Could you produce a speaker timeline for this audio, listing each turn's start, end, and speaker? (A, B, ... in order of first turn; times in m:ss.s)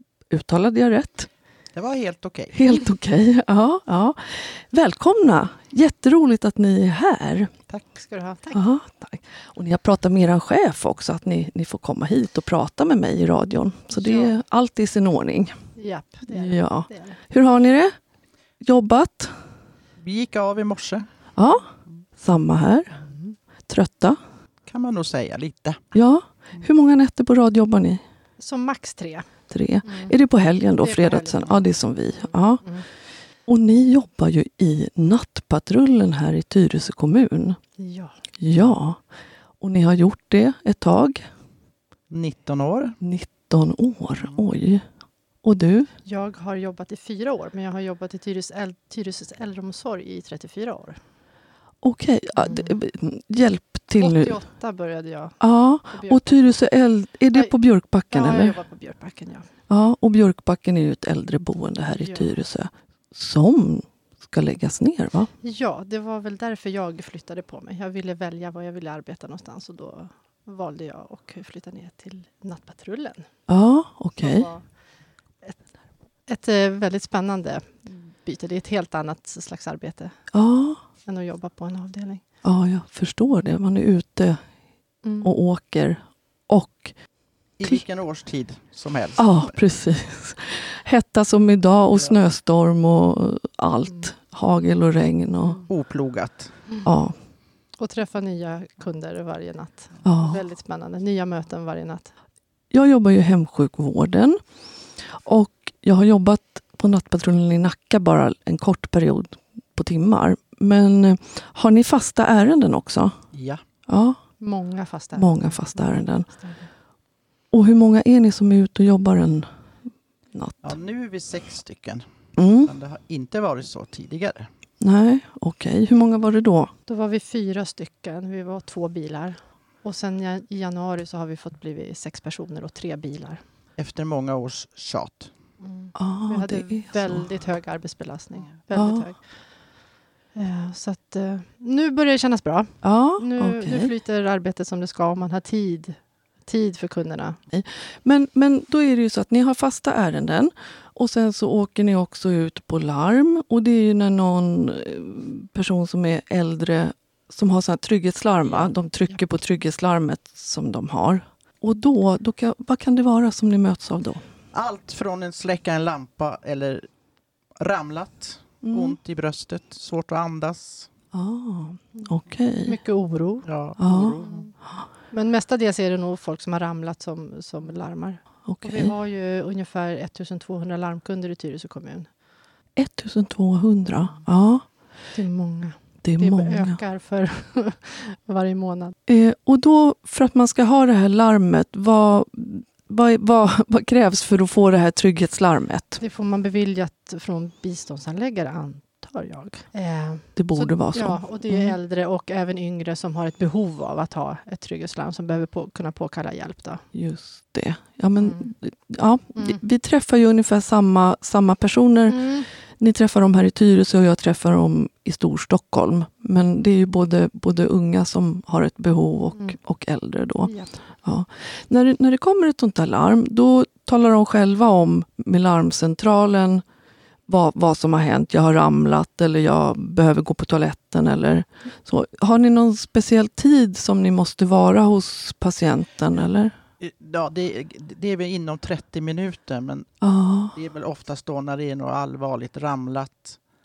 0:00.3-0:01.3 A
0:01.7-0:02.6 B
0:02.5-0:07.5 A
0:08.0-0:08.6 C
0:08.5-0:15.6 A
0:13.9-0:14.4 C
0:15.8-0:17.2 C
0:16.3-0:18.0 A
0:18.6-0:19.5 A
0:20.0-0:21.1 B
0:21.4-0:23.0 A
0:23.0-0:23.4 C
0:23.7-0:24.2 A
0:24.7-0:25.9 B
0:25.9-0:28.0 A
0:28.4-0:30.2 C
0:29.5-0:37.6 A
0:30.7-0:32.9 C
0:37.8-0:38.2 C
0:38.4-0:39.0 A
0:39.6-0:41.3 A
0:42.1-0:43.0 B
0:43.0-0:44.9 A
0:44.1-0:44.4 B
0:45.4-0:45.9 A
0:46.0-0:51.0 C
0:51.8-0:54.4 A
0:52.4-0:52.8 C
0:54.0-0:56.6 C
0:55.4-0:58.6 A
0:57.3-0:59.5 C
0:59.7-1:05.3 A
1:02.0-1:02.3 C
1:05.4-1:13.4 C
1:13.5-1:14.5 A
1:14.2-1:15.7 C
1:16.2-1:20.4 C
1:20.3-1:20.8 A
1:21.0-1:22.2 C
1:22.4-1:24.5 A
1:25.0-1:25.3 C
1:25.2-1:27.1 A
1:27.6-1:29.6 B
1:29.2-1:35.6 A
1:33.9-1:34.1 C
1:35.7-1:36.6 B
1:36.8-1:37.2 A
1:37.8-1:42.1 C
1:40.0-1:40.4 A
1:42.7-1:44.4 A
1:45.0-1:53.2 A
1:53.3-1:53.6 B
1:53.9-1:54.2 A
1:54.4-1:56.7 C
1:55.2-1:56.3 A
1:57.5-1:59.6 A
2:00.3-2:00.7 A
2:00.6-2:04.5 B
2:02.4-2:02.7 A
2:04.8-2:06.7 A
2:06.9-2:13.4 C
2:13.8-2:15.3 B
2:15.6-2:27.4 C
2:16.0-2:17.3 A
2:18.8-2:19.1 A
2:22.8-2:23.9 A
2:27.5-2:44.3 A
2:38.4-2:38.7 B
2:44.5-2:46.9 B
2:47.6-2:50.9 B
2:48.6-2:49.0 A
2:51.1-2:52.8 A
2:52.0-2:53.5 C
2:53.4-2:54.5 B
2:53.8-2:54.2 A
2:54.2-3:02.1 C
2:58.4-2:58.9 A
3:02.8-3:04.9 A
3:05.1-3:09.0 C
3:06.0-3:06.8 A
3:09.1-3:16.0 A
3:16.0-3:26.9 C
3:20.4-3:21.8 A
3:26.9-3:46.6 A
3:28.2-3:28.5 C
3:29.4-3:29.6 C
3:32.1-3:32.5 C
3:40.5-3:40.8 C
3:47.3-3:56.6 A
3:56.8-4:00.0 B
4:00.0-4:00.6 A
4:00.5-4:03.4 B